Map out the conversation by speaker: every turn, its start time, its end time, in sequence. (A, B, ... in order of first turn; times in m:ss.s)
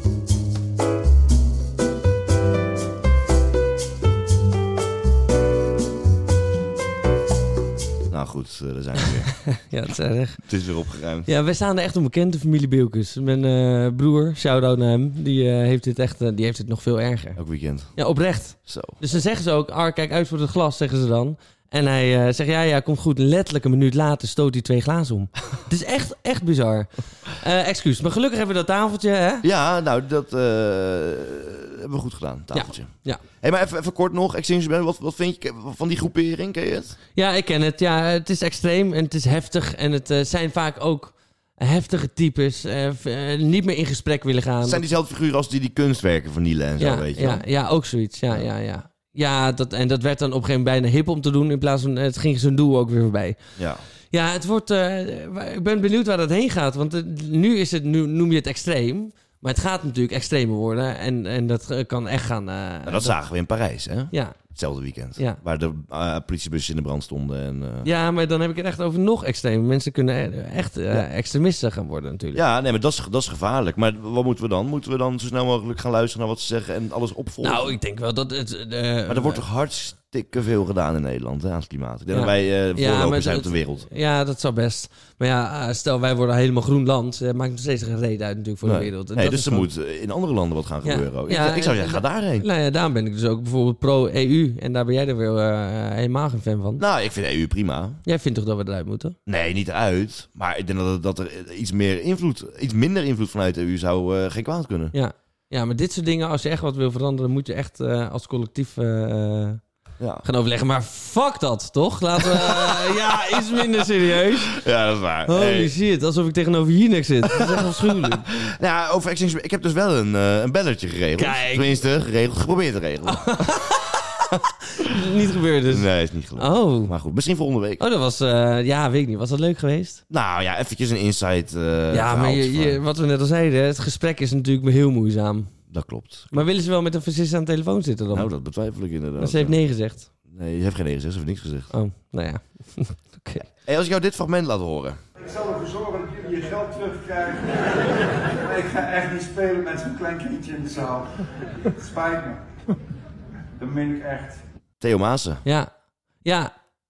0:08.1-0:09.4 A
0:09.5-0:10.5 B
0:10.4-0:11.3 A
0:11.3-0:17.4 B
0:17.4-0:18.0 A
0:18.0-0:29.5 B
0:18.6-0:19.0 A
0:29.4-0:37.0 A
0:32.5-0:33.2 B
0:37.2-0:44.8 B
0:44.6-0:47.4 A
0:46.8-0:53.5 B
0:53.6-0:53.9 A
0:54.1-1:03.1 B
1:02.9-1:07.9 A
1:04.1-1:04.4 B
1:07.8-1:12.4 B
1:12.3-1:17.8 A
1:17.4-1:19.4 B
1:19.1-1:23.9 A
1:22.1-1:29.7 B
1:28.6-1:32.5 A
1:30.8-1:36.8 B
1:36.8-1:38.0 A
1:38.0-1:39.2 B
1:39.3-1:45.0 A
1:44.9-1:49.6 B
1:50.0-1:50.2 A
1:50.2-1:54.6 B
1:52.2-1:53.9 A
1:54.5-1:55.7 A
1:55.3-1:58.3 B
1:57.4-2:03.6 A
2:01.2-2:01.8 B
2:03.1-2:04.2 B
2:04.7-2:06.9 B
2:05.7-2:07.8 A
2:07.8-2:10.0 B
2:10.1-2:12.8 A
2:11.9-2:15.6 B
2:15.7-2:16.5 A
2:16.3-2:18.3 B
2:18.1-2:19.6 A
2:19.2-2:20.1 B
2:20.1-2:21.7 A
2:21.7-2:23.5 B
2:23.4-2:25.0 A
2:25.2-2:32.5 C
2:33.6-2:34.4 C
2:34.8-2:35.4 A
2:35.4-2:36.5 B